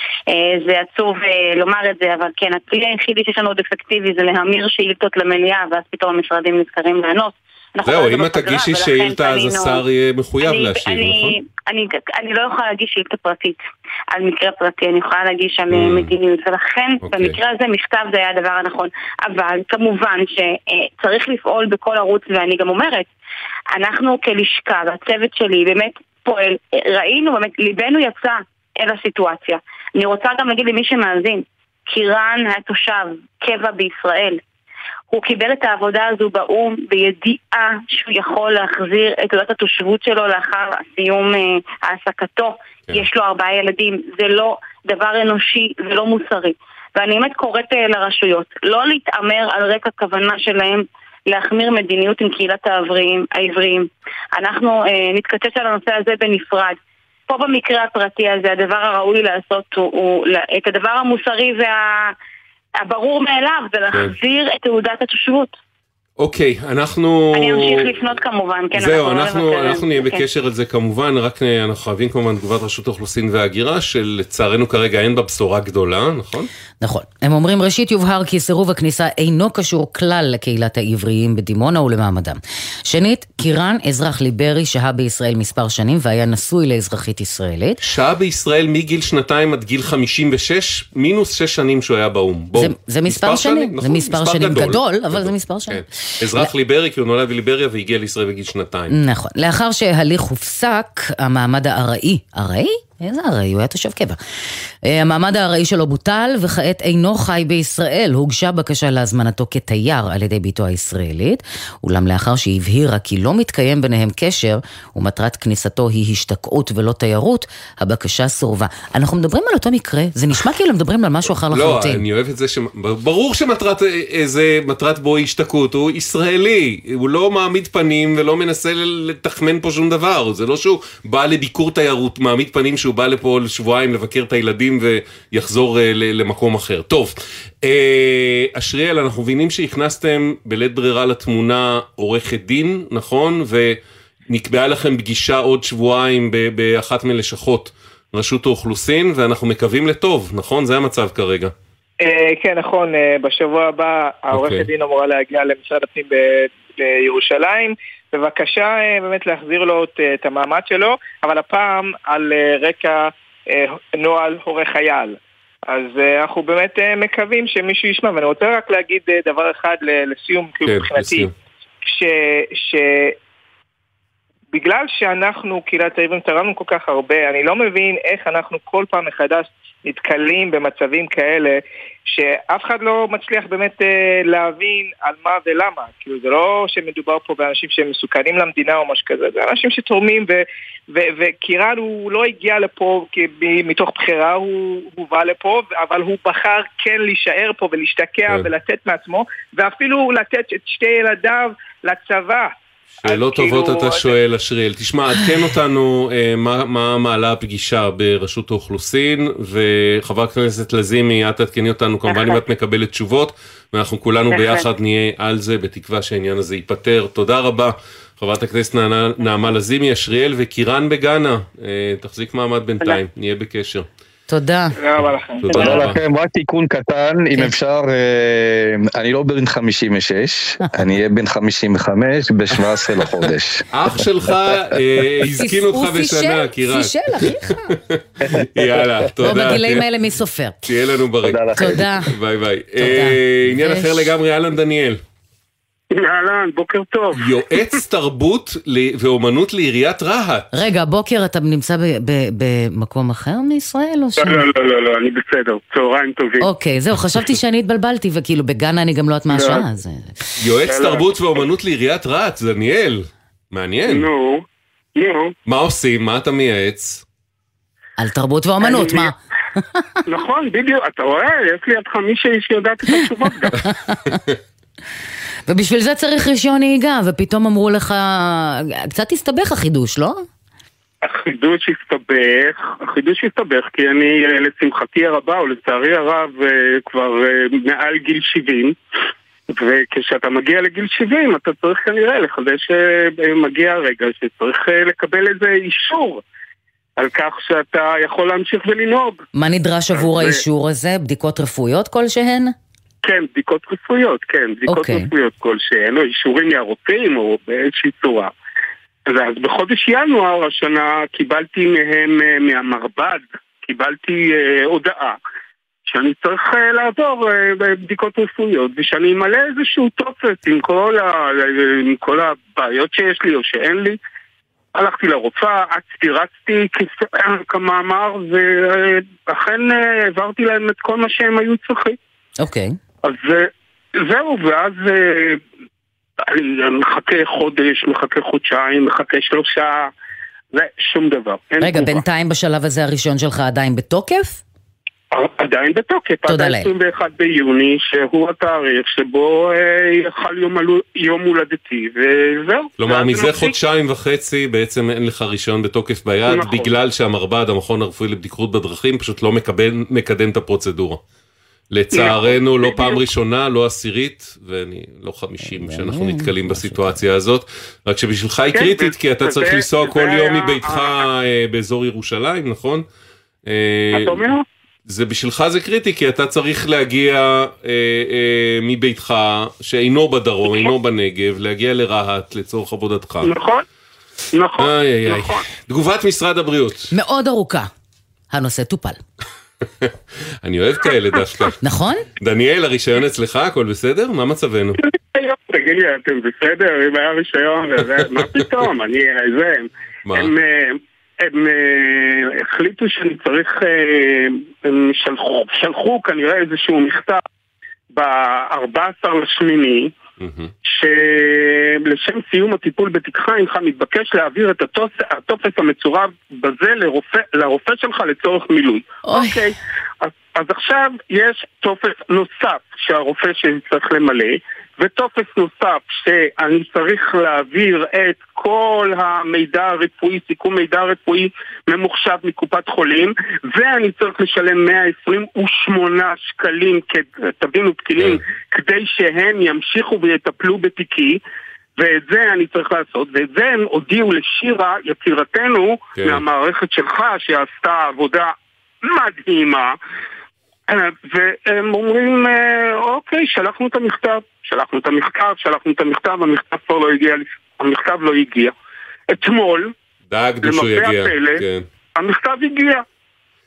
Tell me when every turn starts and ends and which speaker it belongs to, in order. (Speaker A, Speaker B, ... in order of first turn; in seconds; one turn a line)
Speaker A: 0.3-9.8
Speaker B: 7.8-11.4
Speaker A: 10.4-13.6
Speaker A: 14.1-23.1
Speaker B: 15.7-16.1
Speaker B: 17.0-17.4
Speaker A: 23.7-34.4
Speaker A: 35.1-56.8
Speaker A: 57.3-62.1
Speaker A: 62.8-65.6
Speaker B: 66.2-68.0
Speaker A: 67.3-70.2
Speaker B: 68.7-76.5
Speaker C: 76.8-87.8
Speaker B: 87.8-98.9
Speaker C: 92.5-95.8
Speaker C: 98.9-104.2
Speaker C: 104.8-122.0
Speaker B: 121.5-143.8
Speaker B: 144.3-151.5
Speaker D: 152.0-171.3
Speaker B: 154.3-154.7
Speaker B: 170.7-171.3
Speaker D: 171.8-173.2
Speaker D: 174.5-204.2
Speaker B: 203.0-223.9
Speaker A: 212.1-212.4
Speaker A: 214.3-214.7
Speaker C: 224.3-224.7
Speaker D: 224.8-225.8
Speaker B: 225.4-226.0
Speaker E: 225.5-233.7
Speaker B: 233.7-236.9
Speaker C: 235.3-237.7
Speaker B: 237.5-238.0
Speaker E: 238.4-238.9
Speaker B: 238.5-239.8
Speaker C: 239.2-240.6
Speaker B: 240.7-245.0
Speaker E: 241.2-241.8
Speaker C: 241.6-242.1
Speaker C: 242.8-244.1
Speaker F: 245.9-247.2
Speaker B: 247.1-250.5
Speaker C: 250.5-254.5
Speaker F: 254.2-256.5
Speaker C: 256.4-260.1
Speaker F: 259.3-259.6
Speaker B: 260.4-264.1
Speaker F: 260.6-261.2
Speaker F: 263.9-264.4
Speaker F: 264.9-265.3
Speaker B: 265.4-267.0
Speaker C: 268.0-269.8
Speaker F: 268.6-269.1
Speaker F: 270.1-273.6
Speaker C: 273.6-274.2
Speaker C: 275.5-280.3
Speaker F: 281.1-288.8
Speaker F: 289.5-296.2
Speaker F: 297.0-299.2
Speaker C: 299.3-302.5
Speaker F: 299.9-300.4
Speaker F: 303.0-308.3
Speaker C: 304.7-305.1
Speaker F: 309.1-315.2
Speaker F: 315.9-324.0
Speaker F: 324.7-332.0
Speaker C: 332.4-332.8
Speaker F: 333.0-335.4
Speaker F: 336.3-339.9
Speaker F: 340.5-342.0
Speaker C: 341.6-344.4
Speaker F: 345.1-353.6
Speaker C: 346.3-346.7
Speaker B: 352.8-361.0
Speaker F: 356.3-356.7
Speaker B: 361.7-372.8
Speaker F: 361.9-363.0
Speaker C: 365.4-367.0
Speaker F: 368.5-371.0
Speaker B: 373.5-383.3
Speaker F: 373.9-374.4
Speaker F: 383.2-383.6
Speaker F: 384.3-385.4
Speaker B: 384.6-386.9
Speaker C: 386.9-387.7
Speaker C: 388.3-389.0
Speaker B: 390.4-391.6
Speaker C: 391.6-392.1
Speaker B: 392.2-394.8
Speaker F: 395.1-407.2
Speaker B: 400.1-400.3
Speaker F: 407.9-409.9
Speaker B: 410.2-410.5
Speaker F: 410.6-441.2
Speaker C: 419.1-419.4
Speaker F: 441.8-449.7
Speaker B: 445.9-446.2
Speaker F: 450.7-458.5
Speaker F: 459.1-459.7
Speaker B: 460.1-461.6
Speaker F: 460.4-461.4
Speaker F: 461.9-462.8